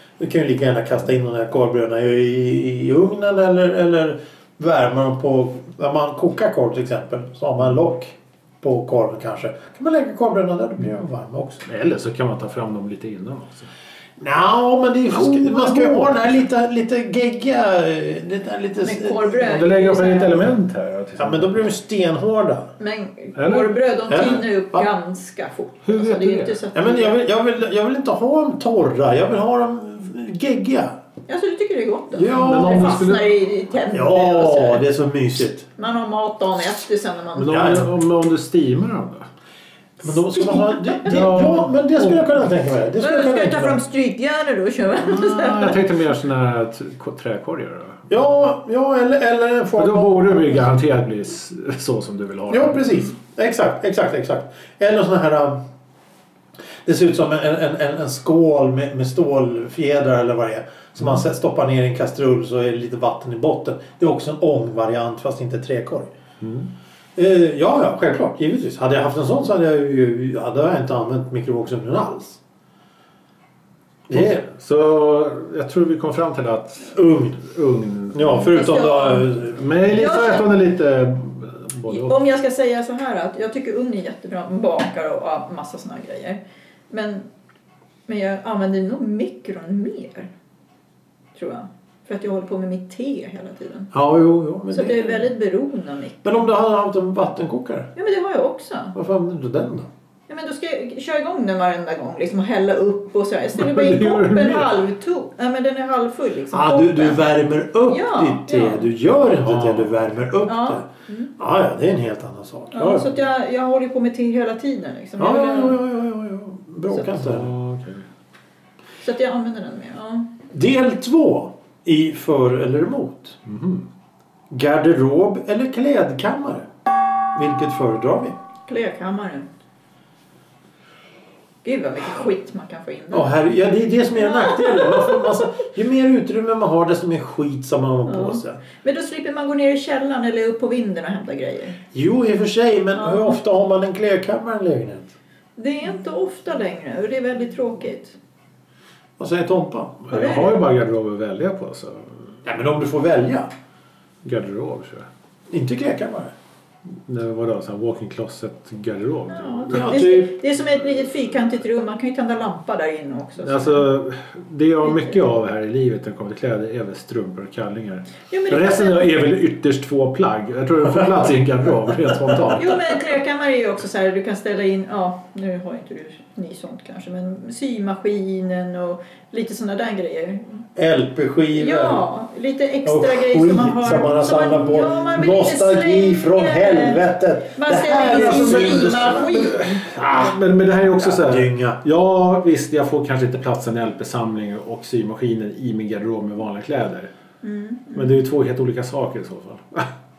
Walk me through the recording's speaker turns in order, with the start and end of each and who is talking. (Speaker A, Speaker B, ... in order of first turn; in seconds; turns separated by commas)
Speaker A: 0.2-11.6, Speaker B: 11.7-13.7, Speaker A: 14.2-19.4, Speaker B: 15.1-16.2, Speaker C: 18.8-20.4, Speaker B: 19.4-21.7, Speaker A: 21.2-22.7, Speaker C: 22.8-27.2, Speaker B: 23.4-23.7, Speaker A: 24.1-24.9, Speaker B: 25.8-26.6, Speaker A: 26.7-30.9, Speaker C: 31.3-34.8, Speaker A: 32.1-33.0, Speaker B: 32.4-33.3, Speaker A: 33.9-35.7, Speaker C: 35.8-37.8, Speaker B: 37.3-39.3, Speaker A: 37.5-37.9, Speaker A: 40.0-43.8, Speaker C: 40.4-41.2, Speaker B: 41.0-42.4, Speaker C: 43.0-45.8, Speaker B: 45.0-48.1, Speaker A: 48.1-50.6, Speaker B: 49.8-52.9, Speaker A: 52.5-55.6, Speaker A: 56.8-66.1, Speaker B: 66.4-66.7, Speaker A: 67.2-72.4, Speaker A: 74.1-74.4, Speaker B: 74.1-78.5, Speaker A: 76.9-77.5, Speaker A: 78.1-79.6, Speaker C: 78.3-79.3, Speaker B: 79.5-82.2, Speaker C: 79.9-80.5, Speaker C: 81.9-87.3, Speaker C: 88.1-90.3, Speaker C: 91.3-93.9, Speaker A: 93.9-95.3, Speaker C: 94.7-96.3, Speaker A: 96.2-97.9, Speaker C: 97.9-98.9, Speaker A: 98.9-99.9, Speaker C: 100.3-107.3, Speaker B: 103.5-104.8, Speaker A: 106.5-110.8, Speaker C: 107.9-108.9, Speaker B: 109.4-109.9, Speaker C: 110.5-111.3, Speaker A: 111.4-113.1, Speaker C: 112.7-115.8, Speaker A: 115.2-117.5, Speaker B: 117.1-118.0, Speaker C: 119.0-120.3, Speaker A: 120.5-123.4, Speaker B: 123.5-123.9, Speaker A: 124.5-126.7, Speaker A: 127.3-128.4, Speaker C: 128.7-129.5, Speaker C: 131.6-133.3, Speaker A: 133.1-138.6, Speaker C: 134.2-135.4, Speaker C: 138.1-141.8, Speaker A: 141.9-145.1, Speaker C: 142.9-143.4, Speaker C: 145.6-148.2, Speaker A: 149.2-150.1, Speaker B: 150.1-152.3, Speaker C: 150.1-150.6, Speaker A: 152.4-153.5, Speaker B: 154.2-155.1, Speaker A: 155.5-156.3, Speaker B: 157.1-159.9, Speaker C: 159.3-163.8, Speaker A: 159.7-160.3, Speaker B: 163.4-172.8, Speaker C: 164.8-165.2, Speaker C: 168.3-169.1, Speaker C: 172.5-180.6, Speaker A: 180.8-182.0, Speaker C: 181.5-189.8, Speaker A: 182.8-190.4, Speaker B: 187.9-197.1, Speaker A: 190.9-191.8, Speaker C: 197.4-198.2, Speaker B: 197.9-199.9